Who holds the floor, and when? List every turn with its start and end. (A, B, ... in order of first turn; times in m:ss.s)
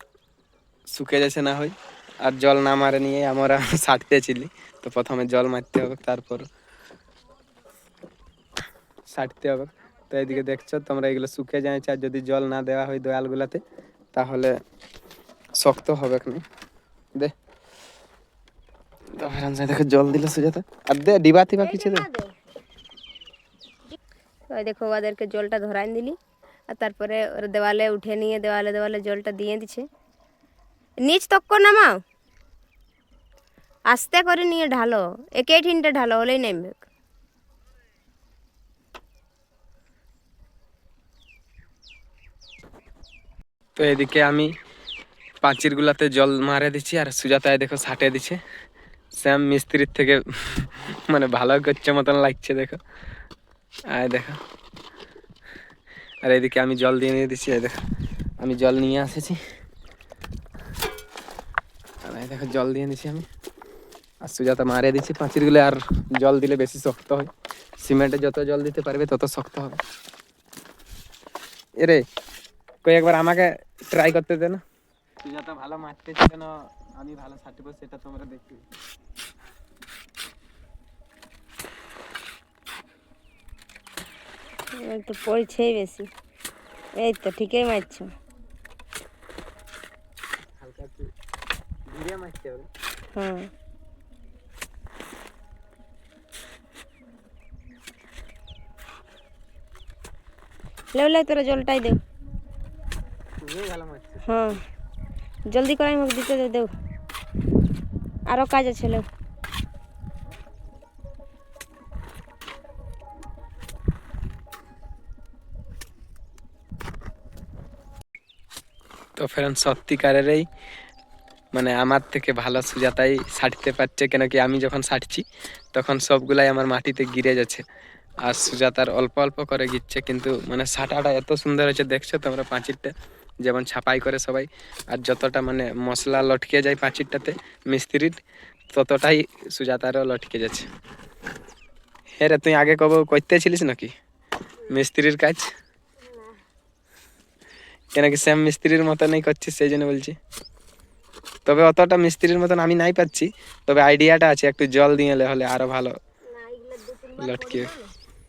0:00.9-0:06.5 A
0:09.1-0:13.6 A
0:14.1-0:14.6 A
0:15.6-0:16.4 A
0:19.2-0:22.0 A
0:21.6-0:22.3 B
0:24.5-0:26.2 B
0:26.7-0:29.9 B
0:31.0-0:31.9 B
0:33.9-0:36.8 B
0:43.8-0:44.5 A
0:45.4-0:48.4 A
0:49.2-0:52.8 A
0:53.9-0:54.4 A
0:56.2-0:57.7 A
0:58.4-0:59.4 A
1:02.0-1:03.2 A
1:04.2-1:09.8 A
1:12.8-1:14.6 A
1:15.2-1:18.6 A
1:24.8-1:26.1 B
1:27.0-1:28.1 B
1:30.6-1:31.1 A
1:31.9-1:32.7 A
1:33.1-1:33.5 B
1:40.9-1:42.0 B
1:43.4-1:44.5 A
1:44.2-1:44.6 B
1:45.5-1:46.7 B
1:48.3-1:49.0 B
1:59.2-2:00.5 A
2:01.5-2:07.6 A
2:08.2-2:18.2 A
2:18.7-2:20.7 A
2:22.2-2:23.9 A
2:24.7-2:25.5 A
2:26.0-2:26.4 B
2:27.9-2:30.2 A
2:31.4-2:36.0 A
2:36.3-2:37.9 B
2:37.2-2:37.7 A